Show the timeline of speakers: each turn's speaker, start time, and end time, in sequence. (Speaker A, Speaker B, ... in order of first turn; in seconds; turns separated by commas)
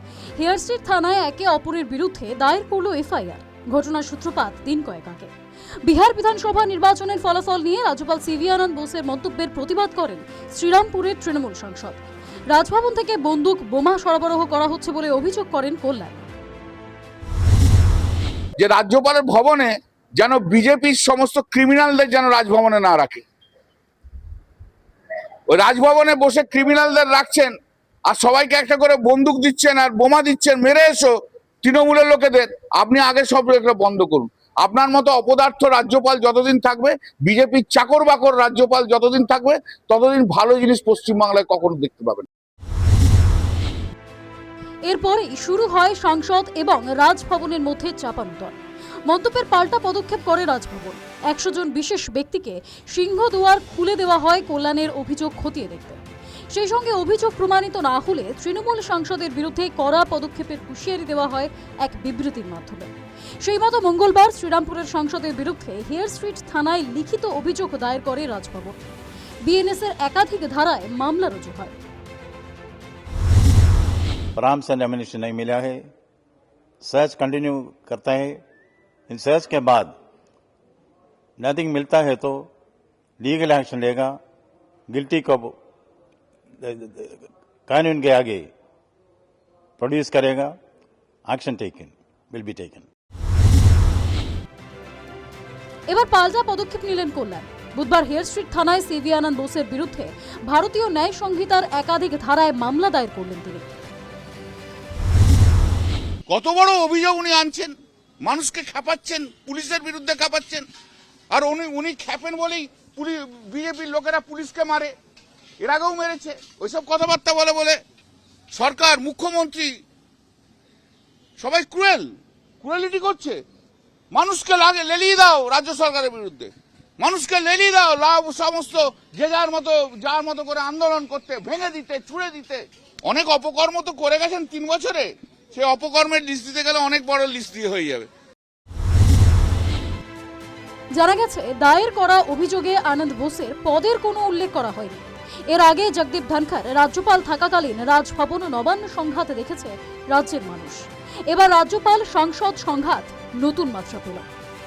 Speaker A: 0.4-5.3, Speaker A: 5.8-16.3, Speaker B: 18.6-23.2, Speaker B: 25.5-27.5, Speaker B: 28.1-31.1, Speaker B: 31.6-42.3, Speaker A: 44.9-48.5, Speaker A: 49.1-62.9, Speaker A: 63.4-68.8, Speaker A: 69.4-71.8, Speaker C: 74.3-75.9, Speaker C: 76.8-78.4, Speaker C: 79.1-79.9, Speaker C: 81.4-82.5, Speaker C: 83.2-84.2, Speaker C: 84.9-85.5, Speaker C: 86.6-88.5, Speaker C: 89.8-90.5, Speaker C: 91.3-92.9, Speaker A: 95.9-103.7, Speaker B: 106.3-110.7, Speaker B: 111.3-114.9, Speaker B: 115.6-117.8, Speaker B: 118.5-119.7, Speaker B: 121.4-123.4, Speaker B: 124.1-138.1, Speaker A: 140.9-154.2